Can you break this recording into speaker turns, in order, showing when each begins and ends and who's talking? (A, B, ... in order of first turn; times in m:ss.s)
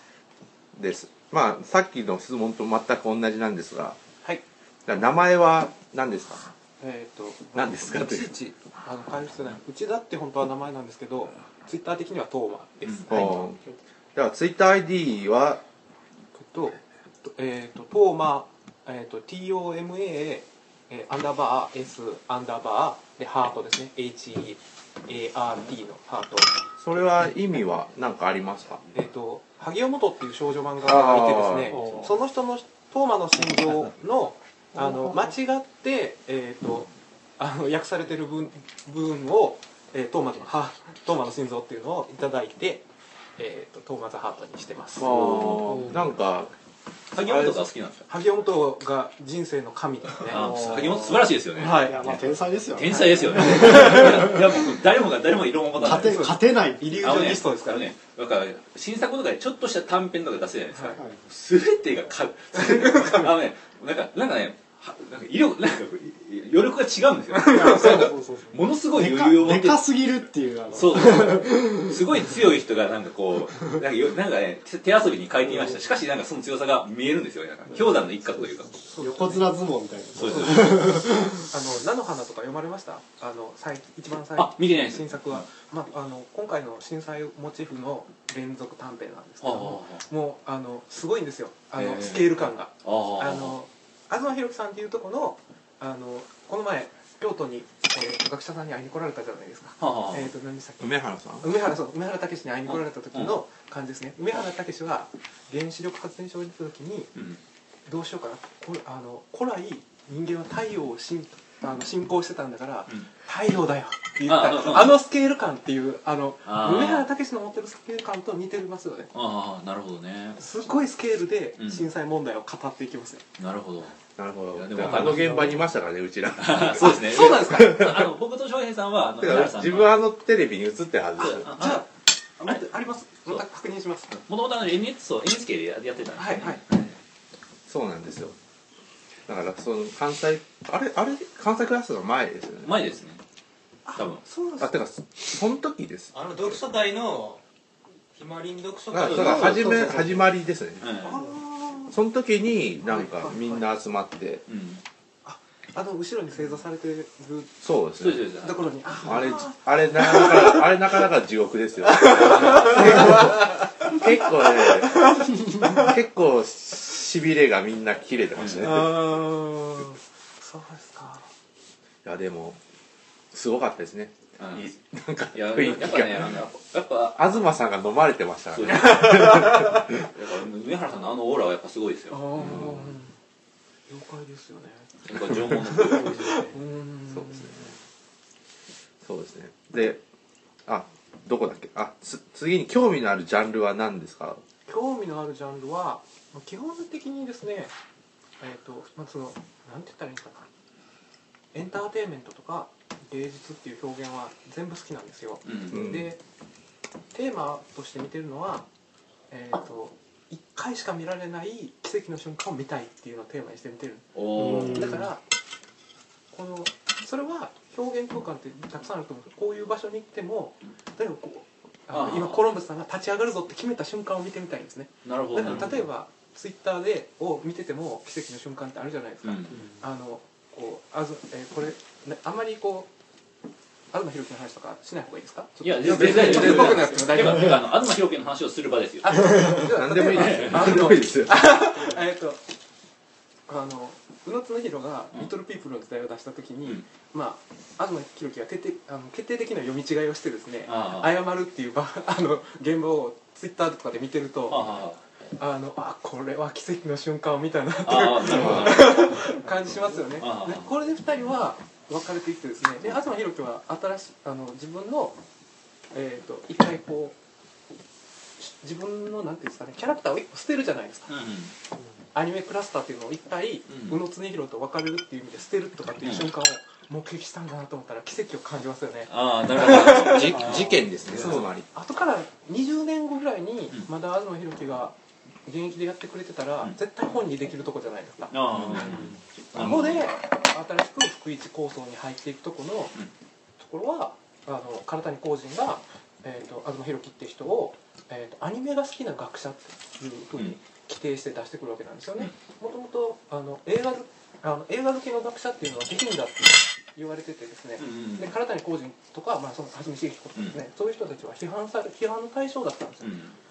0:00.7-0:04.0 A
0:04.9-0:06.4 A
0:06.8-0:13.5 B
0:07.5-0:08.3 A
0:12.8-0:13.3 C
0:13.1-0:13.6 A
0:14.1-0:15.6 A
0:16.3-0:26.5 B
0:26.8-0:28.8 A
0:28.9-0:42.8 B
0:30.8-0:32.0 A
0:31.8-0:32.1 D
0:34.8-0:35.2 D
0:43.4-0:45.1 B
0:45.0-0:46.5 A
0:45.1-0:46.0 D
0:47.1-0:48.0 C
0:47.2-0:47.6 A
0:48.1-0:50.7 B
0:50.3-0:56.4 C
0:50.3-0:54.6 D
0:51.5-0:52.0 B
0:52.9-0:54.3 B
0:55.8-0:57.4 D
0:55.8-0:57.9 B
0:57.0-1:10.0 C
1:00.9-1:01.2 D
1:07.3-1:08.0 B
1:07.4-1:12.0 D
1:10.7-1:18.8 C
1:15.4-1:15.8 D
1:17.9-1:21.5 D
1:18.8-1:19.5 B
1:20.2-1:20.9 C
1:20.2-1:47.1 B
1:24.4-1:25.4 C
1:29.4-1:30.0 C
1:31.8-1:32.4 A
1:32.8-1:33.6 C
1:39.8-1:40.3 C
1:40.8-1:41.5 A
1:42.7-1:43.3 C
1:47.1-1:47.4 C
1:47.8-1:59.1 B
1:54.2-1:55.0 C
1:56.4-1:57.1 C
1:59.1-2:00.7 C
2:00.4-2:03.2 B
2:01.6-2:01.9 C
2:03.4-2:04.0 C
2:04.2-2:08.1 A
2:04.5-2:05.5 C
2:06.4-2:09.9 C
2:06.7-2:07.8 B
2:09.2-2:11.4 A
2:11.2-2:11.8 C
2:11.4-2:14.2 B
2:14.2-2:17.0 C
2:16.2-2:16.6 B
2:17.7-2:18.3 A
2:19.3-2:22.8 A
2:22.6-2:23.2 C
2:23.8-2:24.8 B
2:24.0-2:24.2 C
2:24.6-2:26.6 A
2:26.1-2:27.4 E
2:28.1-2:30.2 E
2:28.9-2:30.8 A
2:29.0-2:29.6 C
2:30.8-2:31.3 C
2:31.0-2:31.9 B
2:31.9-2:34.4 A
2:32.8-2:33.7 B
2:34.5-2:34.8 C
2:35.2-2:37.5 B
2:37.6-2:38.2 A
2:38.0-2:38.7 C
2:38.4-2:40.8 B
2:39.0-2:49.0 A
2:41.9-2:45.9 B
2:42.2-2:43.2 C
2:48.4-2:48.7 C
2:48.6-2:51.3 B
2:52.0-2:52.6 A
2:53.3-2:56.4 A
2:54.4-2:54.7 C
2:55.3-2:57.4 C
2:57.1-3:00.0 A
2:58.5-3:02.8 C
3:02.1-3:03.1 B
3:02.4-3:02.8 A
3:03.9-3:05.1 B
3:05.0-3:06.6 C
3:05.7-3:07.6 B
3:07.2-3:07.6 A
3:09.0-3:10.0 A
3:10.6-3:14.4 A
3:14.6-3:17.7 B
3:18.4-3:20.5 B
3:21.5-3:26.2 B
3:25.4-3:25.8 C
3:25.7-3:26.1 A
3:27.1-3:28.7 B
3:29.3-3:35.2 B
3:34.1-3:35.0 C
3:34.3-3:35.0 D
3:36.3-3:52.9 B
3:41.9-3:42.4 C
3:45.0-3:45.8 C
3:49.2-3:49.7 C
3:53.9-3:57.6 B
3:55.6-3:59.5 C
3:55.8-3:56.8 A
3:59.0-4:02.4 B
3:59.5-4:01.6 A
4:00.1-4:00.7 C
4:03.5-4:14.7 B
4:10.6-4:11.2 C
4:14.5-4:15.0 C
4:15.3-4:25.2 B
4:17.8-4:19.2 C
4:20.2-4:20.7 C
4:25.9-4:27.2 B
4:28.4-4:31.1 B
4:31.1-4:31.5 C
4:32.1-4:40.6 B
4:33.7-4:34.0 C
4:36.0-4:36.3 C
4:39.0-4:41.4 C
4:39.9-4:41.6 A
4:41.2-4:44.9 B
4:45.4-4:48.4 B
4:48.3-4:50.0 C
4:48.5-4:49.0 A
4:49.5-4:52.9 B
4:53.6-5:13.1 B
5:07.8-5:08.4 C
5:13.0-5:13.3 C